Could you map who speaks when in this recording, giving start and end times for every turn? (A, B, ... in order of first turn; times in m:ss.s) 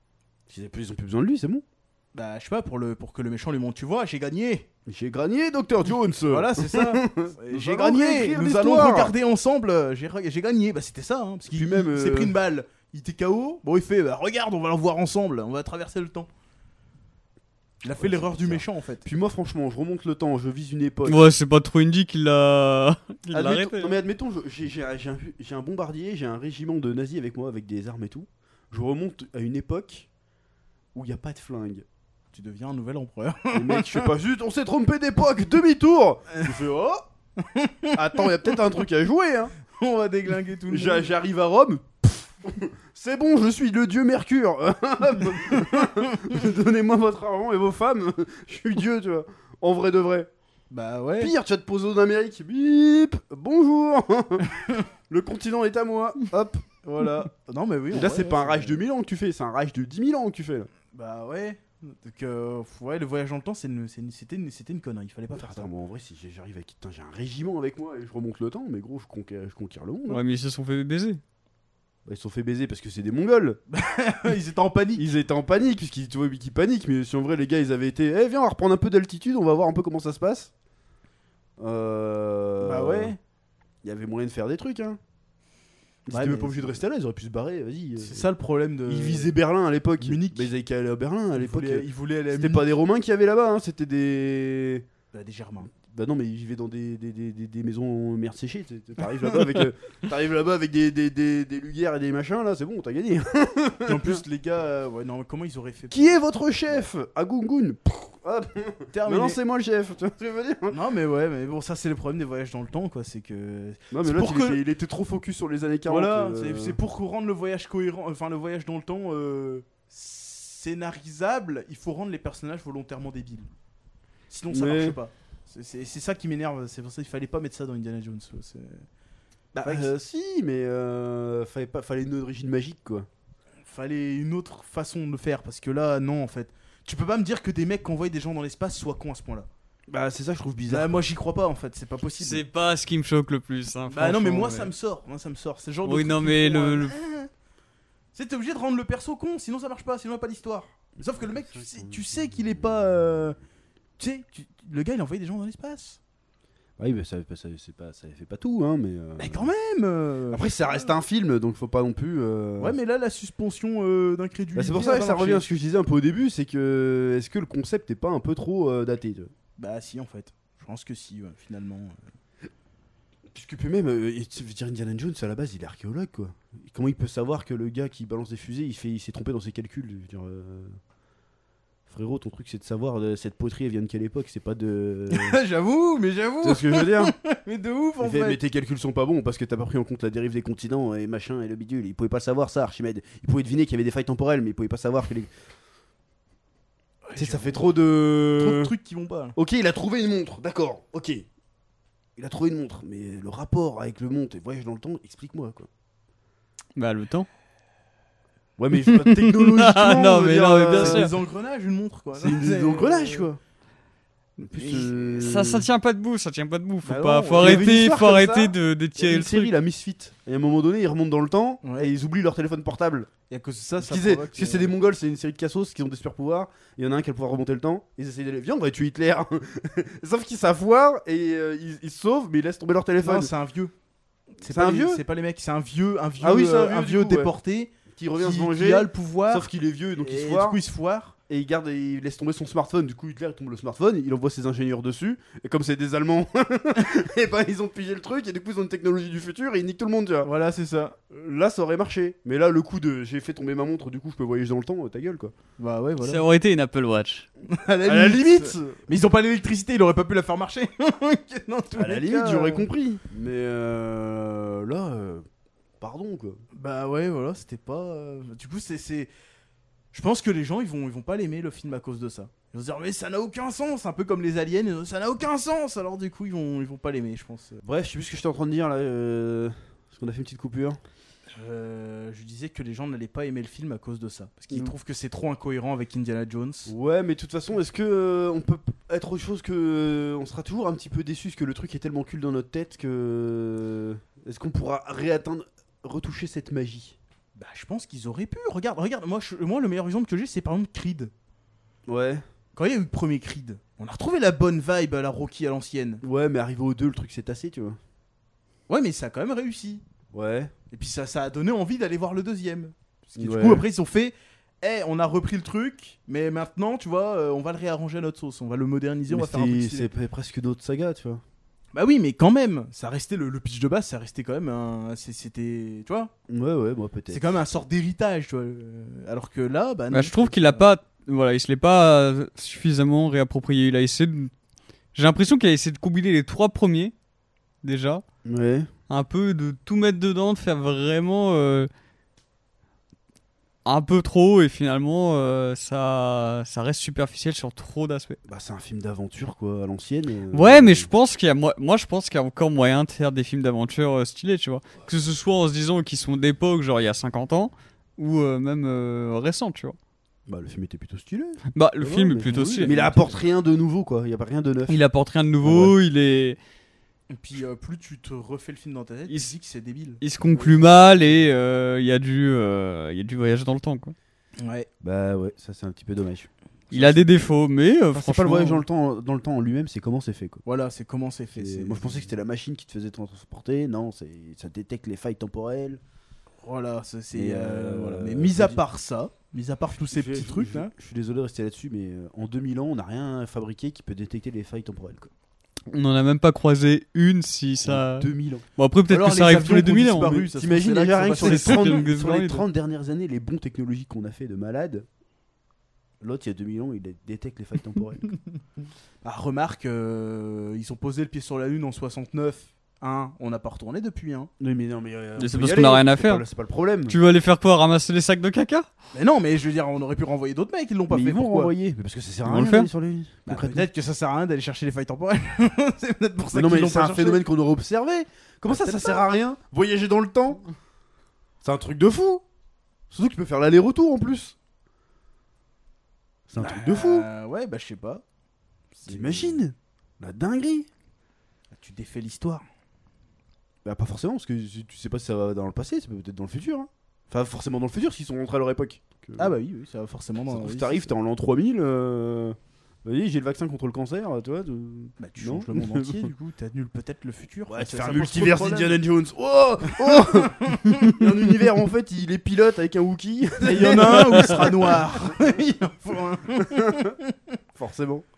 0:00.5-0:01.6 A
0:02.1-0:04.7 B
0:04.9-0:09.1 A
0:06.3-0:16.3 B
0:11.5-0:12.4 A
0:17.8-0:19.0 B
0:18.0-0:21.3 A
0:21.1-0:24.0 C
0:23.3-0:30.1 A
0:30.9-0:31.8 A
0:32.3-0:34.1 B
0:33.5-0:37.1 A
0:37.4-0:38.6 B
0:37.9-0:39.6 A
0:39.6-0:41.1 B
0:40.7-0:50.3 A
0:45.5-0:46.1 B
0:50.7-0:51.3 B
0:51.2-0:54.6 A
0:55.1-0:56.6 A
0:56.8-0:58.8 B
0:57.9-1:00.7 A
1:00.9-1:05.7 B
1:05.3-1:10.2 A
1:10.1-1:11.2 C
1:12.1-1:13.6 A
1:13.7-1:15.0 B
1:15.0-1:20.5 A
1:21.6-1:23.2 A
1:22.6-1:23.2 B
1:23.8-1:25.0 A
1:26.1-1:28.3 A
1:26.1-1:26.8 B
1:28.0-1:29.3 B
1:28.9-1:34.9 A
1:30.0-1:30.5 B
1:31.4-1:32.7 B
1:35.1-1:35.7 B
1:35.7-1:44.2 A
1:43.9-1:46.9 B
1:45.9-1:50.8 A
1:48.9-1:49.4 B
1:50.7-1:54.6 B
1:53.9-1:56.8 A
1:55.9-2:03.5 B
2:04.3-2:08.9 B
2:04.5-2:05.0 A
2:09.6-2:09.9 B
2:09.6-2:13.1 A
2:13.6-2:19.5 B
2:19.9-2:21.0 A
2:20.7-2:22.4 B
2:22.2-2:24.7 C
2:23.9-2:27.3 B
2:25.8-2:27.0 C
2:28.1-2:33.4 B
2:31.2-2:32.1 A
2:34.0-2:36.0 B
2:36.8-2:39.5 A
2:39.2-2:40.5 B
2:40.3-2:42.8 A
2:42.6-2:45.5 B
2:44.6-2:49.3 A
2:49.6-2:52.1 B
2:53.3-3:00.8 A
3:01.9-3:05.4 A
3:05.1-3:08.4 B
3:06.4-3:07.1 A
3:08.0-3:15.3 A
3:17.1-3:19.4 B
3:17.2-3:18.7 A
3:19.4-3:21.2 A
3:22.2-3:25.7 A
3:26.8-3:27.3 C
3:28.6-3:31.1 A
3:28.9-3:31.1 C
3:30.7-3:33.3 B
3:32.2-3:33.4 A
3:34.4-3:35.7 A
3:34.6-3:34.9 B
3:34.6-3:39.5 C
3:36.8-3:37.8 B
3:37.4-3:43.1 A
3:41.6-3:41.9 B
3:43.3-3:44.7 B
3:43.8-3:53.3 A
3:53.0-3:53.7 B
3:54.4-3:59.5 B
3:54.4-3:55.0 A
3:56.2-3:57.3 A
3:57.9-4:00.6 A
4:00.0-4:01.2 B
4:01.3-4:10.3 A
4:10.2-4:11.0 B
4:11.1-4:15.3 A
4:15.6-4:16.2 B
4:16.0-4:17.3 C
4:17.5-4:22.7 B
4:17.9-4:18.9 A
4:21.8-4:25.3 A
4:25.8-4:26.4 A
4:26.5-4:29.1 B
4:29.9-4:37.6 B
4:37.6-4:40.8 A
4:41.3-4:46.7 B
4:46.7-4:57.0 A
4:57.4-5:01.1 B
5:01.9-5:02.2 A
5:02.6-5:06.0 B
5:06.0-5:07.8 A
5:08.7-5:09.8 B
5:10.1-5:10.5 A
5:10.7-5:19.9 B
5:13.2-5:13.6 A
5:19.1-5:21.2 A
5:21.7-5:26.1 B
5:26.3-5:27.3 A
5:27.1-5:30.7 B
5:29.9-5:34.3 C
5:35.0-5:36.9 C
5:37.6-5:38.0 C
5:38.2-5:38.7 A
5:38.9-5:41.7 C
5:43.6-5:48.2 C
5:48.3-5:50.9 A
5:50.3-5:59.8 C
6:00.3-6:04.8 A
6:01.5-6:03.0 C
6:04.7-6:06.4 C
6:05.4-6:05.8 A
6:07.1-6:10.0 B
6:10.0-6:14.0 C
6:14.4-6:14.7 B
6:14.8-6:17.2 A
6:16.7-6:18.6 C
6:17.9-6:20.4 A
6:20.4-6:22.1 B
6:21.4-6:25.8 A
6:26.4-6:30.7 B
6:27.1-6:28.6 A
6:29.9-6:35.1 A
6:35.7-6:40.2 C
6:37.6-6:38.4 A
6:38.9-6:41.9 B
6:40.2-6:44.9 A
6:41.2-6:42.4 C
6:46.0-6:48.1 A
6:49.0-6:54.3 B
6:54.4-6:57.0 A
6:55.2-6:56.2 C
6:56.9-6:58.7 C
6:58.9-7:01.5 B
7:00.9-7:03.7 A
7:02.2-7:02.7 C
7:03.3-7:07.2 B
7:06.3-7:10.4 A
7:08.5-7:09.0 B
7:11.4-7:12.2 A
7:12.9-7:14.4 A
7:16.3-7:17.1 A
7:16.4-7:18.0 B
7:18.7-7:19.4 B
7:18.9-7:20.7 A
7:21.5-7:22.4 B
7:23.6-7:29.3 A
7:29.2-7:30.9 B
7:30.3-7:36.1 A
7:35.0-7:38.8 B
7:37.5-7:45.2 A
7:39.7-7:41.1 B
7:43.4-7:47.2 B
7:46.4-7:46.9 A
7:47.6-7:48.1 A